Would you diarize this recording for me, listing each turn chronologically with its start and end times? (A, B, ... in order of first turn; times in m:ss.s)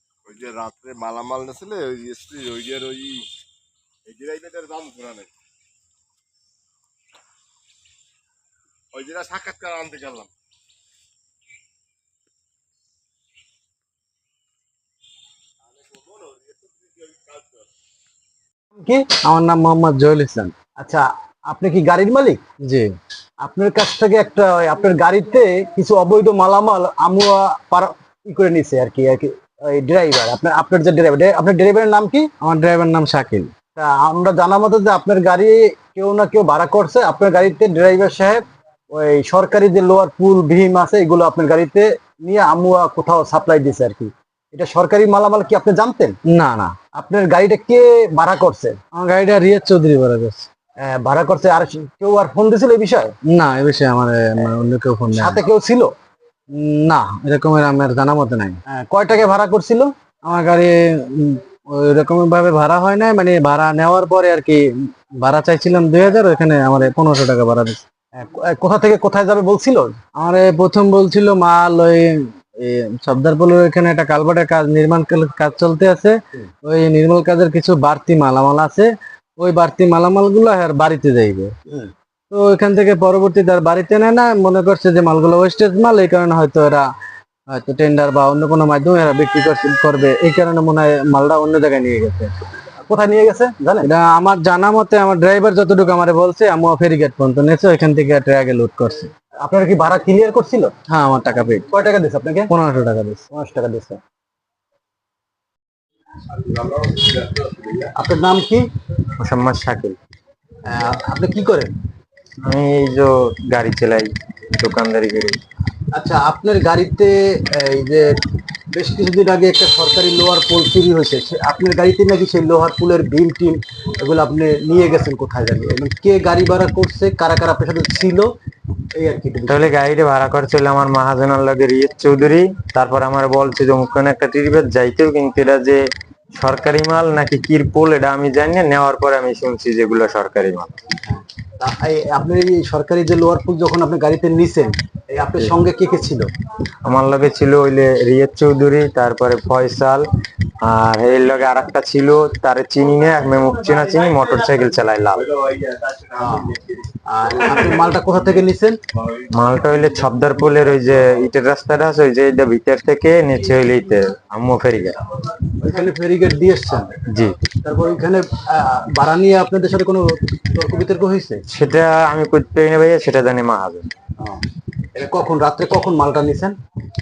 0:00.2-0:03.3 A
0:04.0-0:05.3 A
0:08.9-0:10.3 A
0:15.8-0:17.5 A
0:18.7-0:19.0 B
0:19.2-0:20.5 C
0:20.8-0:22.4 B
0:22.6-0:23.0 C
0:23.4-0:32.3 B
0:32.4-0:33.5 C
0:33.7-0:46.2 B
0:46.2-0:46.8 C
0:46.9-0:48.8 B
0:48.9-0:50.5 C
0:50.8-0:53.1 B
0:53.2-0:55.4 C
0:55.1-0:55.9 B
0:56.5-0:58.6 C
0:58.7-0:59.9 B
1:00.2-1:07.8 C
1:08.1-1:10.0 B
1:10.2-1:21.5 C
1:22.3-1:26.8 C
1:27.5-1:32.3 C
1:32.8-1:33.9 B
1:33.8-1:39.1 C
1:39.4-1:40.7 B
1:40.9-1:41.6 C
1:41.7-1:42.5 B
1:42.5-1:43.2 C
1:43.3-1:44.0 B
1:46.6-1:46.9 B
1:47.6-1:48.7 B
1:49.2-1:50.0 D
1:50.6-1:51.7 B
1:52.4-1:55.4 D
1:55.9-1:58.1 B
1:58.7-2:08.3 B
2:08.9-2:09.7 B
2:09.5-2:15.8 D
2:16.4-2:20.7 D
2:21.1-2:26.3 B
2:26.8-2:30.0 D
2:30.6-2:35.3 D
2:36.1-2:38.8 B
2:39.3-2:45.0 D
2:45.6-2:46.9 B
2:47.1-2:47.4 D
2:47.6-2:51.4 B
2:51.5-2:53.9 D
2:54.9-2:56.5 B